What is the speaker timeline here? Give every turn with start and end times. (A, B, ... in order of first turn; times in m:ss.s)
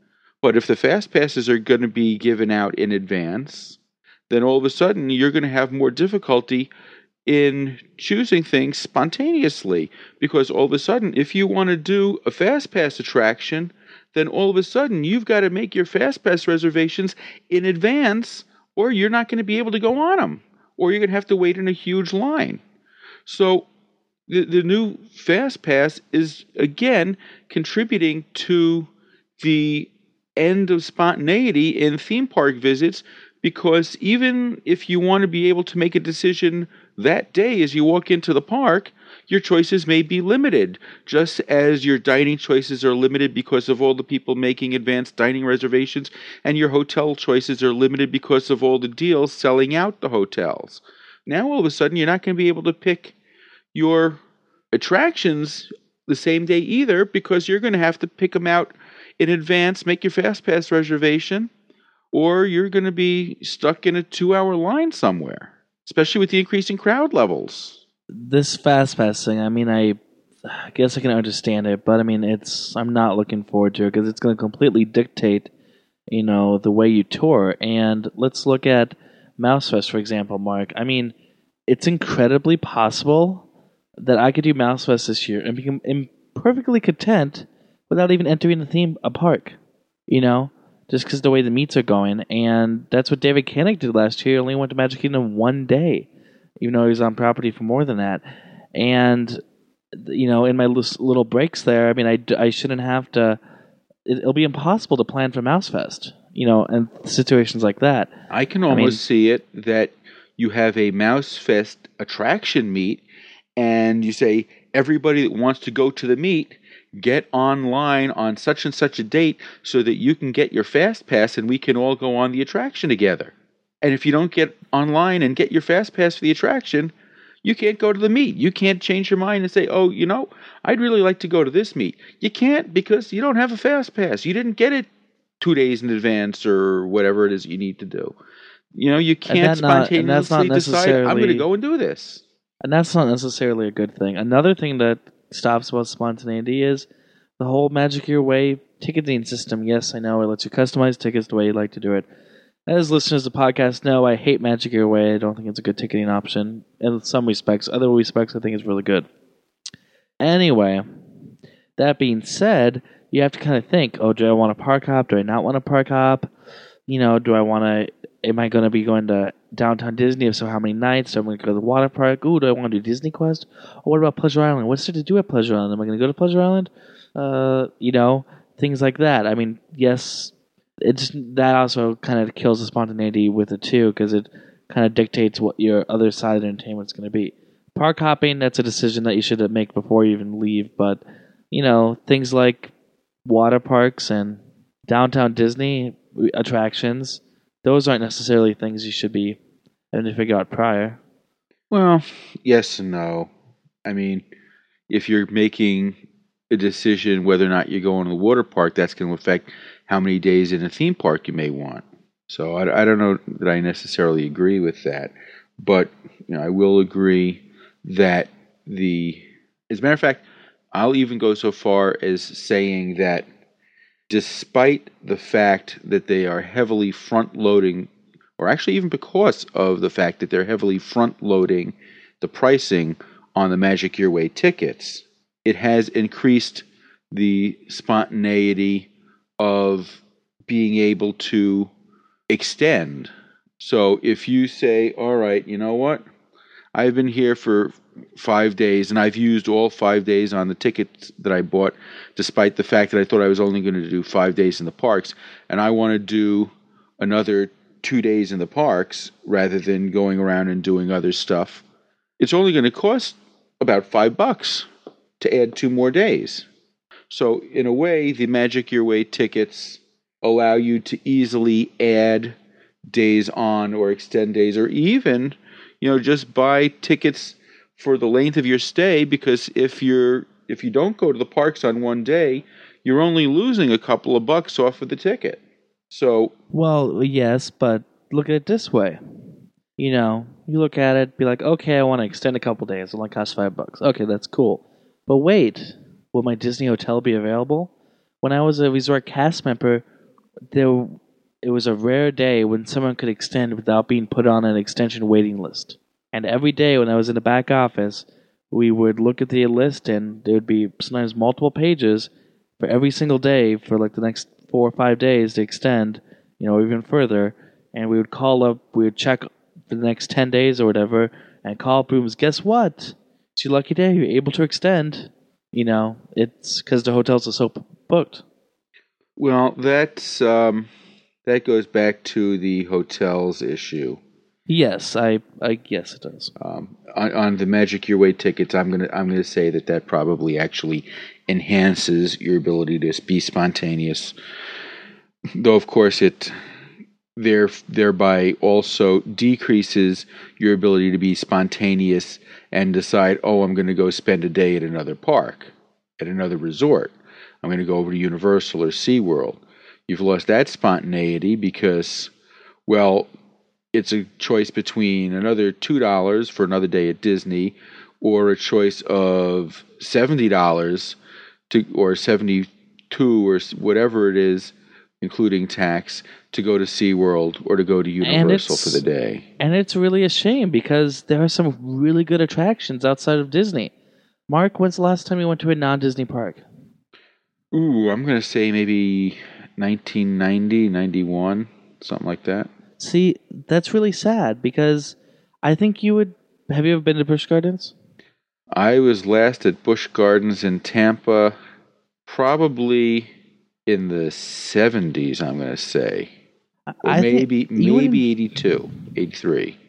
0:00.4-0:03.8 A
0:04.3-0:06.7 A
0:07.3-0:22.6 A
0:23.3-0:23.7 A
0:24.3-0:53.2 A
0:53.7-0:54.2 A
0:54.7-1:01.5 A
1:02.1-1:07.8 A
1:08.1-1:15.5 B
1:16.1-1:21.1 B
1:21.7-1:23.5 B
1:24.0-1:29.6 B
1:30.1-1:36.1 B
1:36.6-1:38.2 B
1:38.8-1:39.4 B
1:40.0-1:43.4 B
1:44.1-1:48.1 B
1:48.3-1:53.0 A
1:48.7-1:49.0 B
1:53.6-2:06.9 A
2:07.4-2:14.9 A
2:15.4-2:18.2 A
2:18.8-2:22.2 A
2:19.3-2:21.5 B
2:22.6-2:26.9 B
2:27.4-2:32.1 B
2:32.7-2:39.1 B
2:40.2-2:40.8 B
2:41.8-2:46.3 B
2:46.9-3:12.7 B
3:13.2-3:19.4 B
3:19.9-3:21.0 B
3:21.7-3:23.3 A
3:23.8-3:24.2 A
3:24.9-3:26.0 A
3:26.5-3:43.3 A
3:44.1-3:58.9 A
3:59.4-4:01.7 A
4:02.3-4:06.0 A
4:06.8-4:21.6 A
4:22.2-4:24.7 A
4:25.2-4:26.5 A
4:27.1-4:32.4 A
4:32.9-4:46.3 A
4:46.5-4:49.0 B
4:49.8-4:57.7 B
4:58.2-4:59.8 B
5:00.5-5:28.2 B
5:29.2-5:30.7 A
5:31.3-5:34.0 A
5:34.5-5:36.3 B
5:36.4-5:44.2 A
5:45.3-5:46.3 A
5:47.2-6:02.1 A
6:02.7-6:03.1 A
6:03.7-6:11.0 A
6:11.5-6:19.2 A
6:18.0-6:18.8 B
6:19.4-6:23.7 B
6:24.3-6:26.4 B
6:27.5-6:32.5 A
6:32.8-6:37.7 B
6:38.5-6:41.4 A
6:42.1-6:43.1 A
6:43.7-6:46.1 A
6:46.8-6:48.0 B
6:46.8-6:49.6 A